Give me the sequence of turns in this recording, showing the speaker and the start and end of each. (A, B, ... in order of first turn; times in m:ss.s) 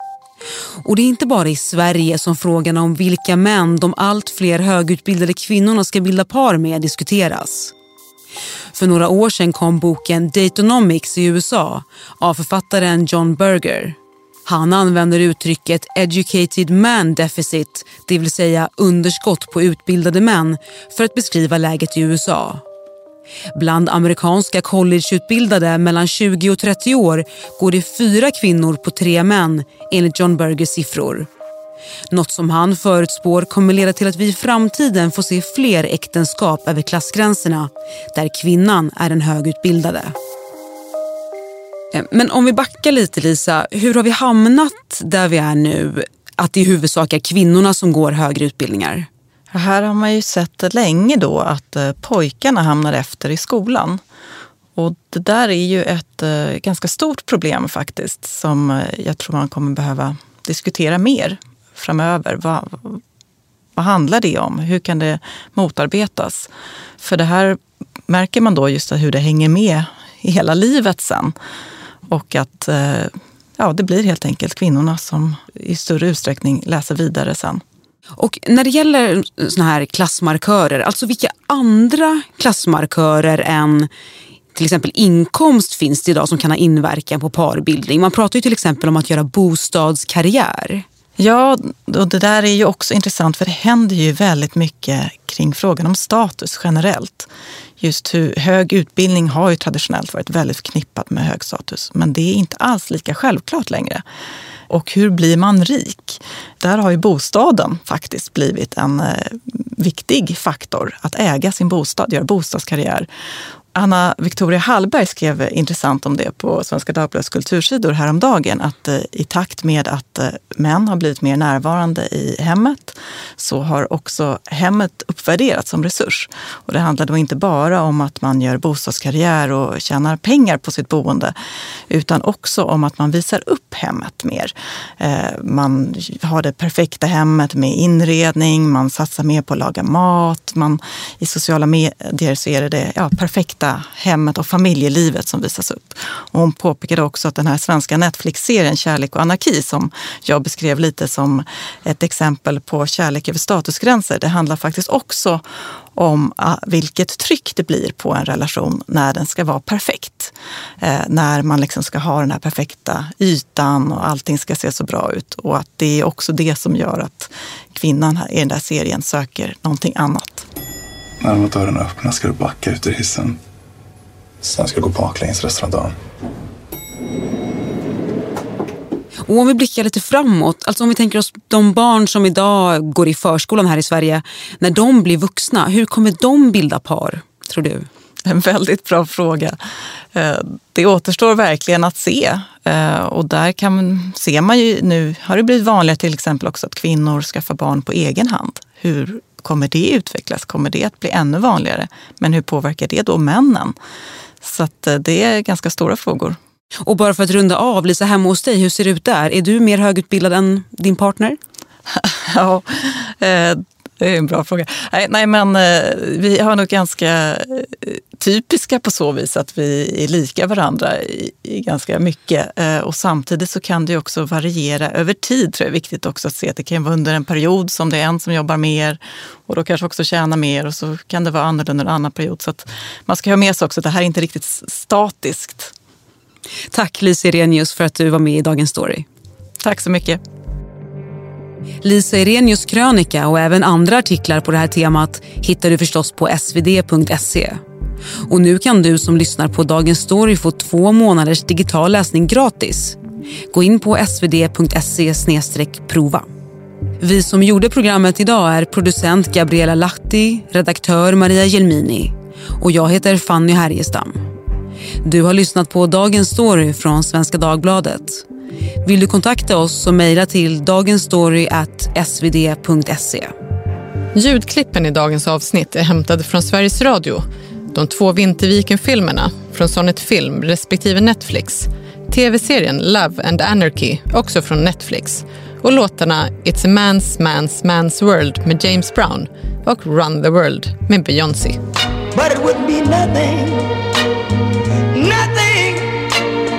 0:00.8-0:07.7 A
0:08.7-0:22.6 A
0:23.5-0:31.3 A
0:32.1-0:40.1 A
0:41.9-0:49.1 A
0:49.5-0:54.0 B
0:54.8-1:03.0 B
1:03.8-1:06.5 B
1:07.0-1:11.3 B
1:12.1-1:17.6 B
1:18.2-1:23.9 A
1:24.5-1:30.8 A
1:31.2-1:37.3 B
1:37.8-1:44.0 B
1:44.7-1:53.1 B
1:53.7-2:11.3 B
2:11.9-2:35.4 B
2:35.9-2:50.4 B
2:51.2-2:53.4 C
2:54.4-2:55.9 C
2:59.2-3:07.9 A
3:08.2-3:09.6 B
3:10.1-3:23.7 B
3:24.4-3:26.4 B
3:26.8-3:31.4 A
3:31.9-3:55.7 B
3:56.7-3:59.0 A
3:59.6-4:00.2 B
4:01.8-4:07.6 A
4:08.2-4:13.0 A
4:13.5-4:16.2 A
4:17.0-4:24.2 A
4:25.0-4:28.2 A
4:28.8-4:33.3 A
4:34.1-4:51.6 D
4:52.1-4:53.8 E
4:54.9-4:56.2 E